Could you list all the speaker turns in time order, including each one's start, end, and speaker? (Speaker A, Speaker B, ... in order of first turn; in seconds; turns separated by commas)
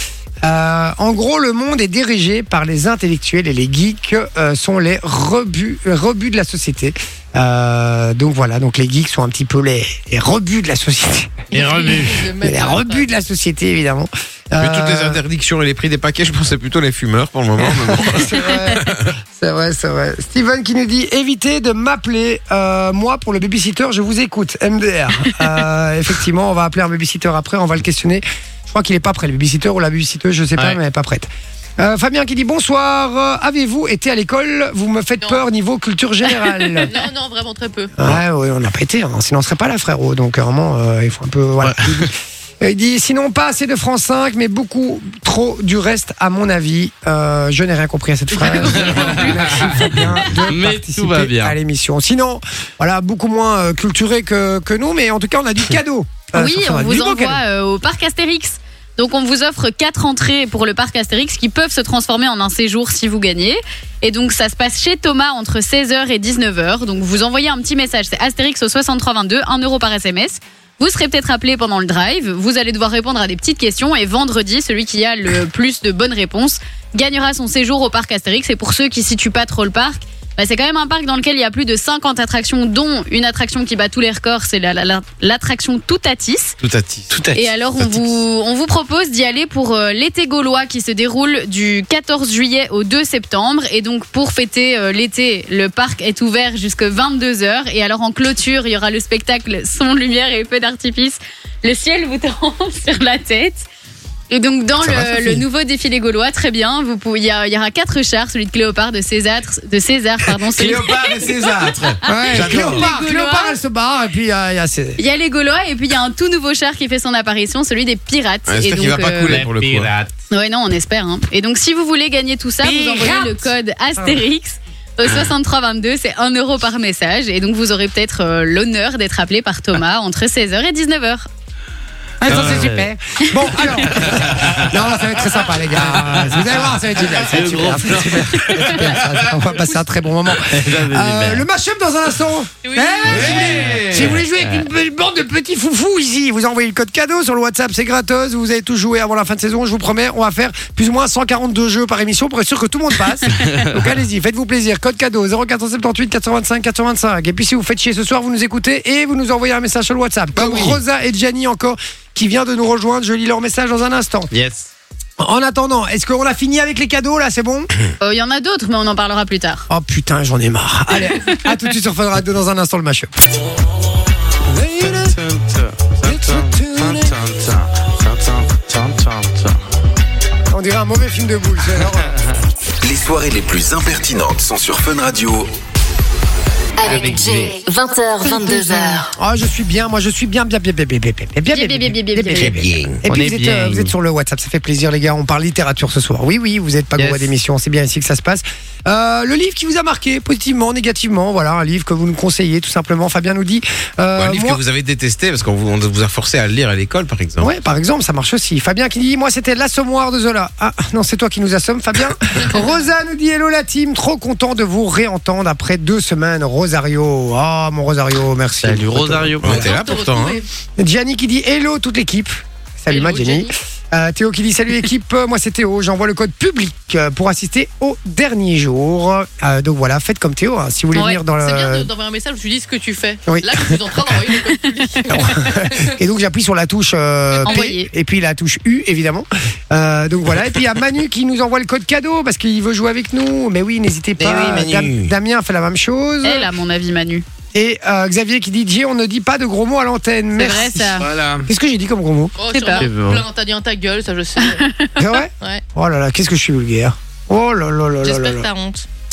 Speaker A: 0.4-11.4, Speaker B: 11.5-13.1, Speaker C: 11.5-12.2, Speaker A: 12.4-15.2, Speaker D: 14.6-19.1, Speaker A: 17.6-37.0, Speaker B: 36.8-37.9, Speaker A: 38.0-57.4, Speaker C: 41.6-42.1, Speaker E: 48.7-50.0, Speaker C: 48.8-49.7, Speaker C: 50.4-51.5, Speaker E: 56.3-86.5, Speaker D: 86.6-87.3, Speaker C: 87.1-87.4, Speaker E: 87.3-103.7, Speaker E: 104.3-111.3, Speaker A: 104.8-105.4, Speaker D: 110.5-112.9, Speaker A: 112.0-115.0, Speaker E: 112.1-113.6, Speaker E: 115.0-119.4, Speaker D: 118.5-119.9, Speaker C: 119.2-120.1, Speaker E: 120.3-131.3, Speaker A: 122.6-123.4, Speaker A: 132.2-164.3, Speaker C: 132.2-132.9, Speaker C: 134.0-134.7, Speaker C: 135.8-136.5, Speaker C: 137.2-138.9, Speaker C: 140.4-141.4, Speaker B: 142.6-143.7, Speaker D: 143.1-144.2, Speaker C: 143.9-144.6, Speaker C: 164.3-164.7, Speaker A: 165.2-167.7, Speaker E: 168.0-169.6, Speaker A: 169.7-173.2, Speaker A: 174.4-175.2, Speaker C: 174.8-179.6, Speaker A: 176.0-177.2, Speaker A: 180.5-182.2, Speaker F: 182.8-185.5, Speaker G: 186.8-189.1, Speaker C: 186.9-187.6, Speaker A: 188.2-204.6, Speaker E: 191.5-192.6, Speaker D: 192.4-193.0, Speaker C: 193.0-193.9, Speaker C: 197.0-197.3, Speaker D: 204.2-207.5, Speaker A: 207.4-219.7, Speaker C: 218.6-219.6, Speaker D: 219.4-220.4, Speaker B: 219.5-220.5, Speaker A: 220.8-231.9, Speaker B: 222.9-223.5, Speaker E: 230.9-231.2, Speaker B: 231.4-235.9, Speaker A: 233.3-233.8, Speaker A: 235.1-246.5, Speaker E: 237.4-237.9, Speaker D: 244.2-245.1, Speaker C: 244.3-244.8, Speaker E: 246.2-247.2, Speaker A: 247.5-252.9, Speaker E: 250.3-251.1, Speaker C: 251.0-251.5, Speaker B: 252.4-254.6, Speaker C: 252.8-253.2, Speaker E: 254.4-254.9, Speaker A: 255.0-258.5, Speaker B: 258.0-258.9